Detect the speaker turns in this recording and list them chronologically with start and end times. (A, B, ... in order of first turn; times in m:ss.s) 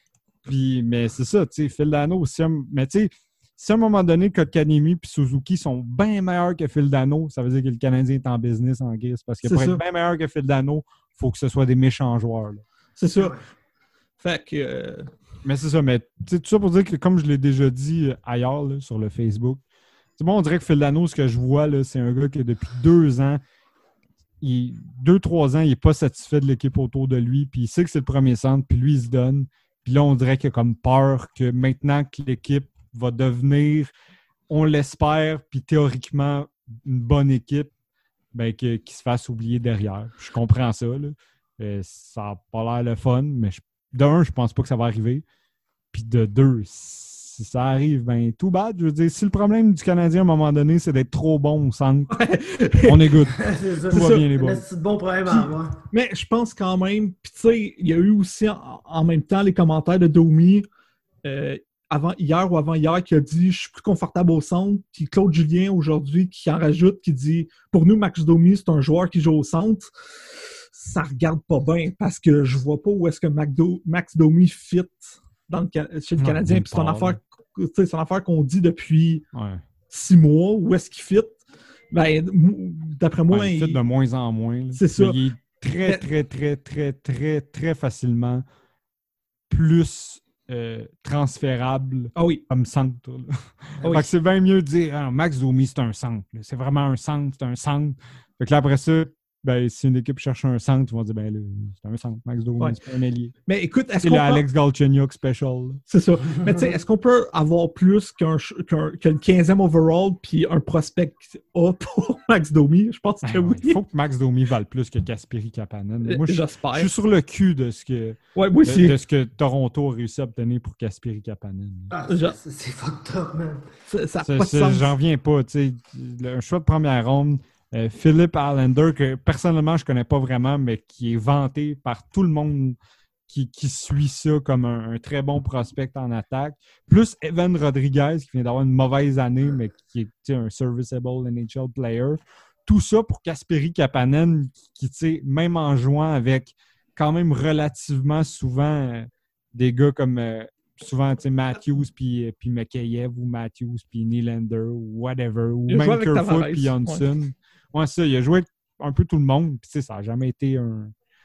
0:00.4-0:12.6 A
0:09.4-0:09.8 B
0:13.0-0:13.4 B
0:14.2-0:15.1 B
0:15.4-0:19.6 A
0:20.2-0:23.4 A
0:24.4-0:33.9 A
0:34.5-0:37.7 A
0:38.3-0:45.2 A
0:45.9-0:52.2 A
0:52.1-0:53.3 B
0:52.8-0:54.6 A
0:53.4-0:55.8 C
0:53.9-0:54.2 B
0:55.3-1:00.7 B
1:01.2-1:09.9 B
1:10.7-1:19.2 B
1:16.2-1:17.2 A
1:19.3-1:19.6 A
1:19.9-1:21.4 B
1:21.9-1:23.8 B
1:23.3-1:28.4 A
1:24.8-1:25.2 B
1:29.5-1:43.4 A
1:32.2-1:32.4 B
1:43.5-1:44.4 B
1:44.0-1:45.8 A
1:45.9-1:53.8 B
1:53.2-2:01.9 A
1:56.0-1:56.9 B
1:58.4-1:59.0 B
2:01.9-2:03.6 C
2:02.1-2:02.4 B
2:03.9-2:04.9 B
2:04.2-2:12.8 A
2:13.3-2:40.9 A
2:35.7-2:37.0 B